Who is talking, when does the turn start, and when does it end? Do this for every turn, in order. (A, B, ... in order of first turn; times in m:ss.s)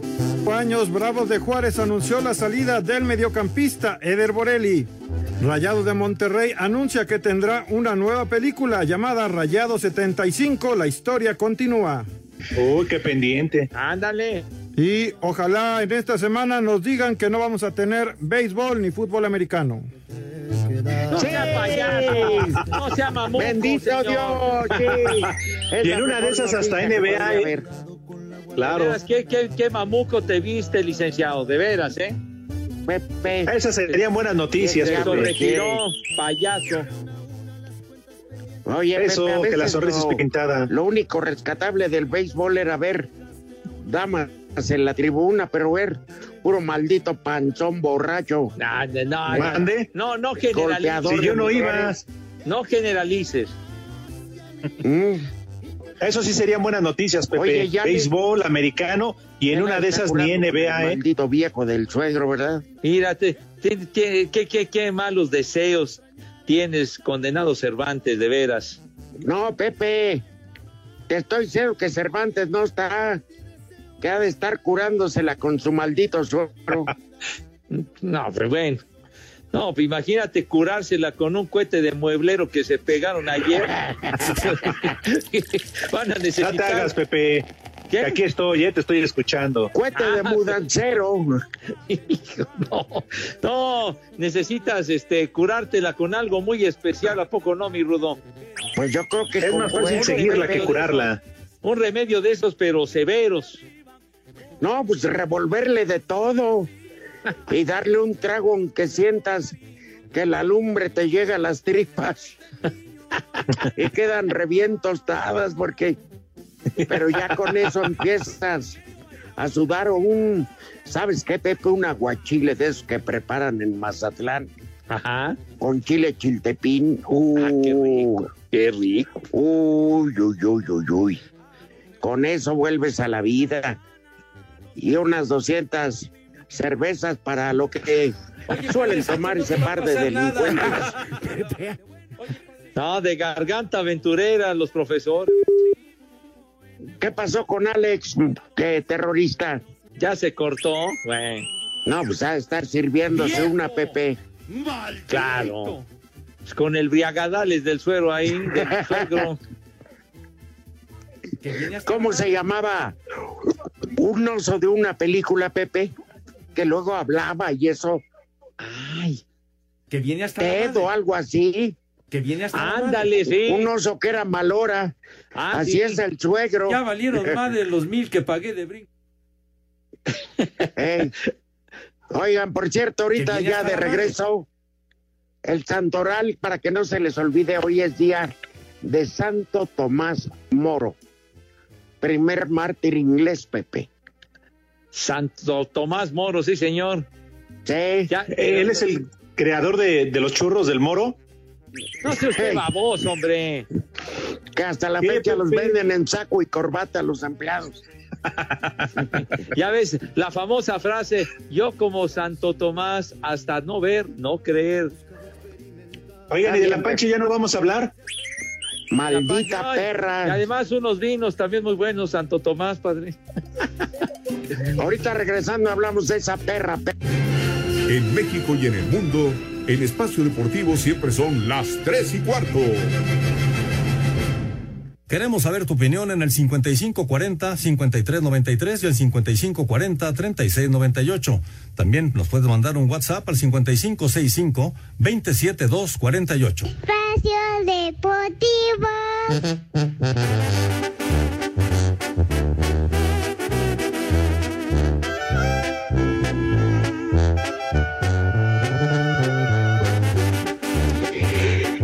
0:00.4-0:04.9 A
0:05.4-0:12.1 A
0:12.6-0:13.7 B
0:13.7-0:14.4 C
0:14.8-0:19.9 A
0:21.1-0:24.5 C
0:21.1-0:22.6 D
0:23.4-0:27.7 D
0:25.8-0:27.5 B
0:28.6-0:29.0 B
0:28.6-0:32.2 C
0:32.9-0:33.5 D
0:33.5-0:35.3 B
0:34.6-0:35.8 D
0:34.8-0:36.9 C
0:38.7-0:43.1 D
0:39.0-0:40.7 B
0:43.8-0:48.5 D
0:48.6-0:51.6 C
0:49.3-0:49.6 D
0:49.3-0:49.9 B
0:50.5-0:52.0 D
0:51.1-0:52.0 B
0:52.4-0:53.6 C
0:54.8-0:55.3 D
0:56.0-1:01.0 B
0:57.3-0:58.1 D
0:59.5-1:02.6 D
1:02.8-1:08.8 C
1:09.2-1:10.2 D
1:11.1-1:13.2 D
1:14.0-1:16.9 D
1:17.7-1:18.8 C
1:19.5-1:26.9 C
1:26.4-1:27.5 B
1:27.9-1:28.2 C
1:28.0-1:29.7 B
1:29.7-1:31.3 D
1:30.0-1:30.5 C
1:31.9-1:38.2 C
1:38.8-1:40.7 D
1:39.4-1:41.2 B
1:39.8-1:41.1 C
1:41.6-1:43.6 C
1:44.6-1:46.7 D
1:47.5-1:49.6 D
1:50.1-1:52.4 D
1:53.7-1:56.0 D
1:56.9-1:58.8 D
1:59.4-2:04.5 D
2:04.9-2:05.4 C
2:05.6-2:08.3 D
2:07.4-2:09.2 C
2:09.3-2:11.2 D
2:12.0-2:13.8 D
2:14.8-2:20.9 D
2:18.5-2:21.5 E
2:22.8-2:25.3 C
2:27.0-2:29.6 D
2:30.0-2:31.5 C
2:31.8-2:34.2 D
2:33.1-2:34.0 E
2:34.5-2:35.8 E
2:35.1-2:35.8 C
2:36.5-2:39.4 C
2:38.4-2:39.2 D
2:41.4-2:42.4 E
2:41.9-2:43.0 D
2:44.0-2:45.9 D
2:46.6-2:48.0 D
2:48.7-2:49.2 C
2:49.9-2:50.9 E
2:50.4-2:51.8 D
2:52.1-2:53.1 E
2:52.5-2:53.7 C
2:53.4-2:55.0 D
2:55.4-2:56.0 C
2:55.5-2:56.8 D
2:56.7-2:58.9 E
3:00.8-3:01.1 D
3:02.1-3:04.5 D
3:03.2-3:04.1 E
3:05.4-3:11.0 D
3:12.0-3:13.9 D
3:14.9-3:17.1 C
3:17.6-3:18.1 D
3:18.1-3:18.8 C
3:18.3-3:21.2 B
3:22.0-3:23.7 C
3:22.1-3:22.6 D
3:24.6-3:27.8 D
3:25.0-3:25.8 B
3:28.3-3:28.9 B
3:29.5-3:34.9 C
3:36.3-3:37.9 B
3:36.4-3:37.0 D
3:38.9-3:40.4 D
3:39.1-3:43.2 C
3:44.8-3:46.9 D
3:47.9-3:52.9 F
3:55.1-4:06.7 G
4:06.7-4:09.5 H
4:21.3-4:21.6 D